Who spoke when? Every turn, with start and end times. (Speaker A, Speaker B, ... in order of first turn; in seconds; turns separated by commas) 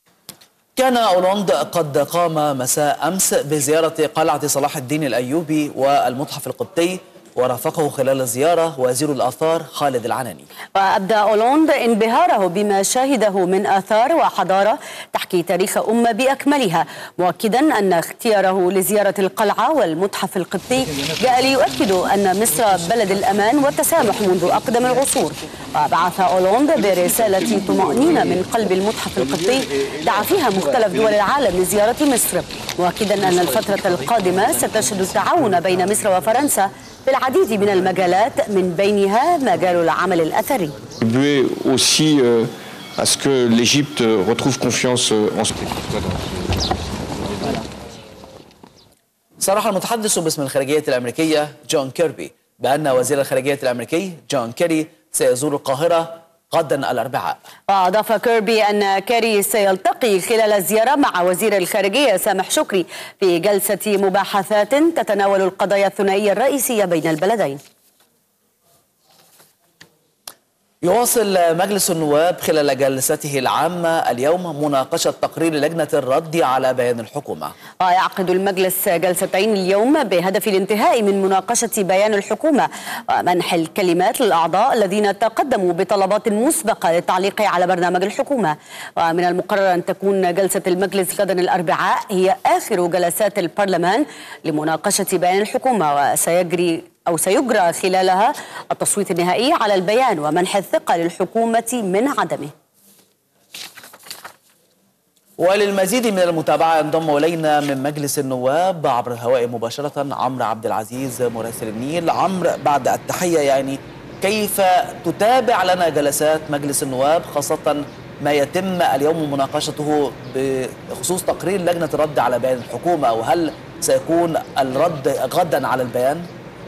Speaker A: 0.8-10.5, Speaker B: 10.8-40.7, Speaker C: 41.0-46.2, Speaker A: 49.4-57.4, Speaker B: 57.7-67.6, Speaker A: 70.8-77.5, Speaker B: 77.8-102.5, Speaker A: 105.4-126.3